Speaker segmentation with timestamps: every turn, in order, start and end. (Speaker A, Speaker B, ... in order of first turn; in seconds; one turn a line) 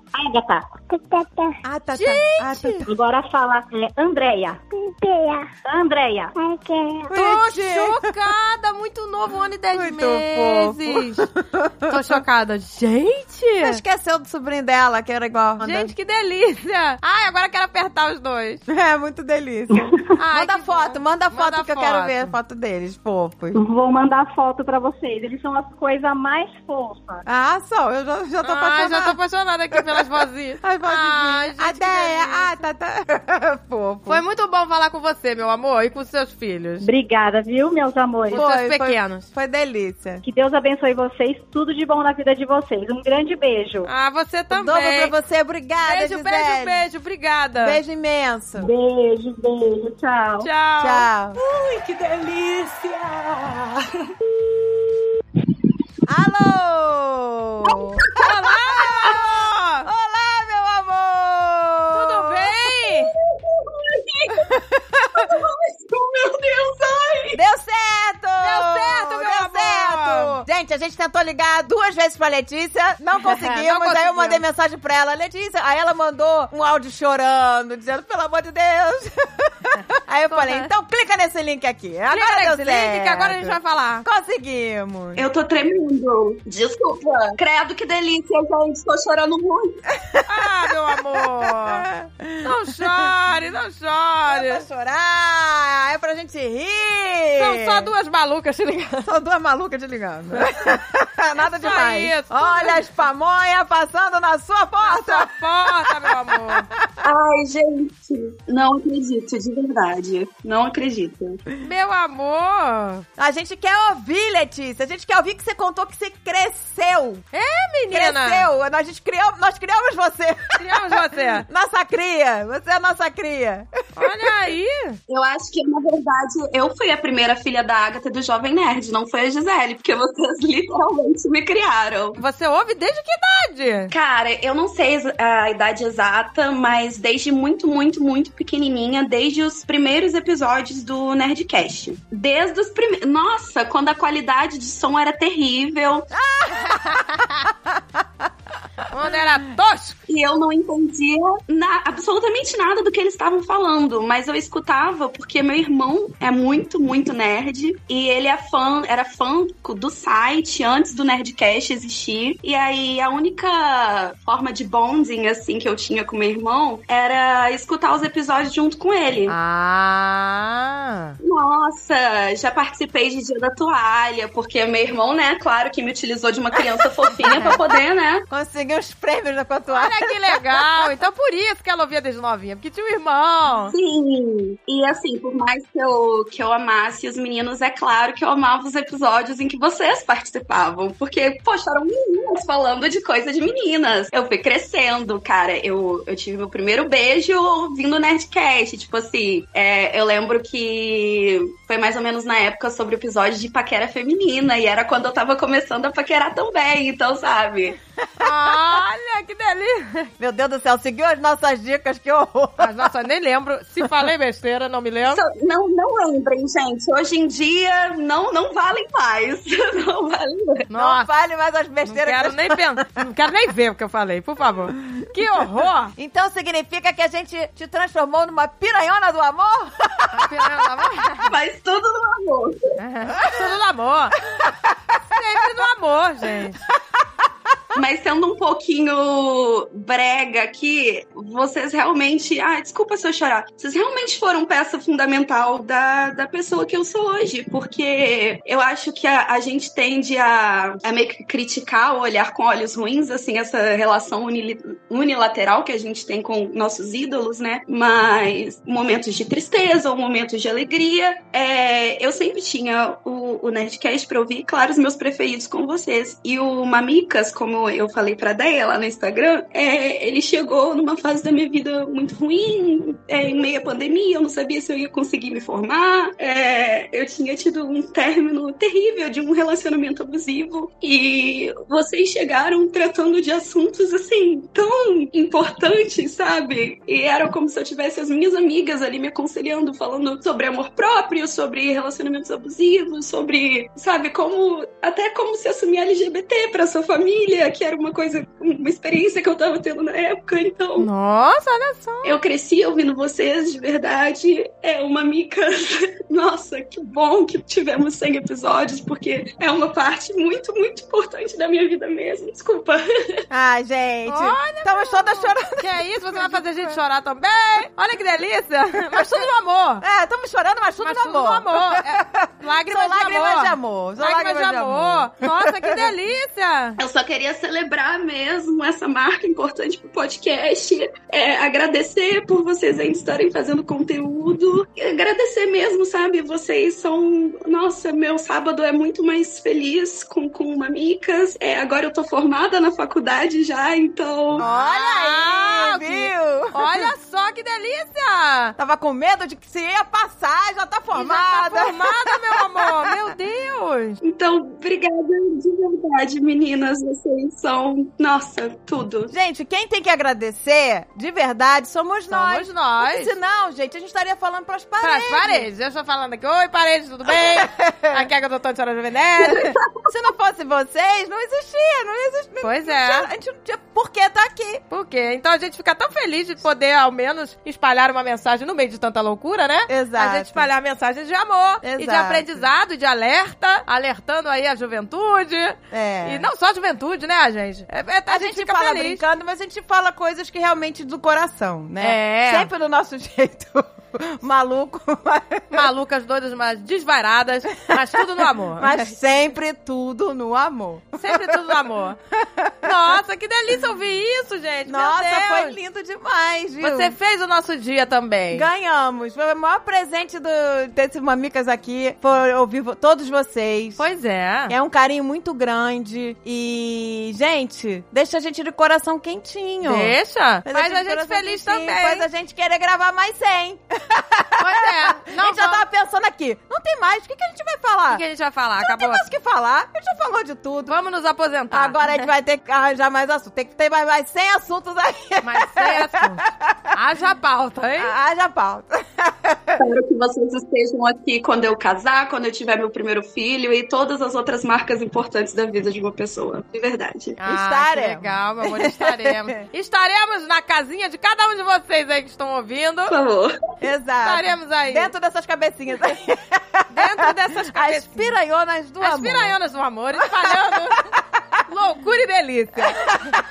Speaker A: 0.1-0.7
Speaker B: 0.9-1.6
Speaker C: 1.6-2.9
Speaker D: 2.0-2.8
Speaker A: 2.9-4.6
Speaker B: 4.7-5.5
Speaker A: 5.6-6.3
Speaker B: 6.4-7.1
Speaker C: 7.1-8.0
Speaker D: 7.1-11.3
Speaker C: 9.7-11.9
Speaker D: 11.9-13.8
Speaker C: 13.6-15.9
Speaker D: 15.6-18.6
Speaker C: 18.7-23.6
Speaker A: 19.7-20.0
Speaker D: 20.2-22.3
Speaker A: 23.5-27.2
Speaker C: 27.3-29.2
Speaker D: 28.4-32.5
Speaker C: 30.6-34.2
Speaker D: 34.1-36.9
Speaker A: 36.8-38.4
Speaker C: 38.3-40.2
Speaker D: 38.3-39.3
Speaker A: 40.2-43.9
Speaker D: 43.9-45.1
Speaker C: 44.5-46.8
Speaker D: 45.8-47.8
Speaker C: 47.6-48.7
Speaker A: 48.6-50.5
Speaker D: 50.4-51.1
Speaker C: 50.8-51.4
Speaker E: 51.4-53.9
Speaker C: 56.1-58.8
Speaker D: 58.2-59.9
Speaker C: 59.9-62.5
Speaker D: 61.9-63.1
Speaker F: 63.4-64.4
Speaker C: 64.6-65.3
Speaker F: 65.2-67.4
Speaker C: 67.3-85.2
Speaker D: 68.4-70.4
Speaker D: 73.2-74.4
Speaker D: 80.3-80.7
Speaker D: 82.1-84.1
Speaker F: 85.2-89.8
Speaker D: 90.3-91.8
Speaker C: 91.6-92.4
Speaker D: 92.4-94.6
Speaker C: 94.3-97.9
Speaker D: 97.3-99.1
Speaker C: 99.0-105.3
Speaker D: 101.5-102.8
Speaker D: 104.8-106.7
Speaker F: 107.0-111.4
Speaker D: 111.6-113.1
Speaker C: 113.2-117.2
Speaker D: 117.3-118.5
Speaker C: 117.9-120.6
Speaker D: 120.6-121.5
Speaker C: 121.4-124.1
Speaker D: 124.0-125.0
Speaker F: 125.1-132.2
Speaker D: 132.2-133.9
Speaker F: 133.9-146.1
Speaker C: 146.2-147.1
Speaker D: 148.9-150.0
Speaker F: 150.1-169.3
Speaker D: 169.3-171.2
Speaker F: 171.2-178.2
Speaker D: 177.3-177.6
Speaker C: 177.3-177.6
Speaker C: 178.3-180.2
Speaker D: 179.7-183.7
Speaker F: 183.7-207.8
Speaker D: 208.2-210.1
Speaker C: 210.2-212.8
Speaker D: 212.6-215.2
Speaker F: 215.1-220.7
Speaker D: 220.7-221.1
Speaker C: 220.7-222.9
Speaker D: 221.8-225.9
Speaker C: 225.9-230.4
Speaker D: 230.1-231.3
Speaker F: 231.3-232.7
Speaker D: 232.8-234.2
Speaker D: 235.1-236.6
Speaker F: 237.7-300.9
Speaker D: 300.8-302.1
Speaker F: 302.0-313.2
Speaker C: 313.3-316.8
Speaker D: 314.1-319.8
Speaker C: 319.8-325.9
Speaker D: 320.8-326.8
Speaker F: 326.8-344.4
Speaker C: 344.4-346.8
Speaker D: 344.4-348.6
Speaker C: 348.6-351.9
Speaker D: 350.9-354.0
Speaker F: 354.0-359.1
Speaker C: 359.1-365.5
Speaker D: 362.1-363.1
Speaker D: 364.8-369.6
Speaker C: 367.1-367.9
Speaker C: 369.9-374.6
Speaker D: 372.4-373.1
Speaker D: 374.7-389.0
Speaker C: 379.7-380.5
Speaker C: 381.6-382.4
Speaker C: 385.7-386.3
Speaker C: 388.1-395.6
Speaker D: 391.8-392.5
Speaker D: 395.5-398.9
Speaker C: 398.6-401.4
Speaker D: 401.0-402.0
Speaker C: 402.4-402.7
Speaker D: 402.6-405.6
Speaker C: 404.7-406.9
Speaker D: 406.6-408.4
Speaker C: 408.3-413.8
Speaker D: 413.8-414.5
Speaker C: 414.5-419.9
Speaker D: 419.6-422.1
Speaker C: 420.5-428.0
Speaker D: 424.4-425.6
Speaker D: 427.9-429.0
Speaker C: 428.6-430.7
Speaker D: 430.7-432.1
Speaker C: 431.5-436.6
Speaker D: 435.2-437.9
Speaker C: 437.8-439.6
Speaker F: 439.6-447.2
Speaker D: 447.2-452.9
Speaker C: 447.2-449.3
Speaker F: 452.9-453.4
Speaker C: 453.6-456.9
Speaker D: 454.1-454.9
Speaker D: 456.7-458.1
Speaker C: 457.4-459.4
Speaker D: 458.8-460.9
Speaker C: 460.0-460.6
Speaker D: 461.5-463.1
Speaker C: 462.6-463.2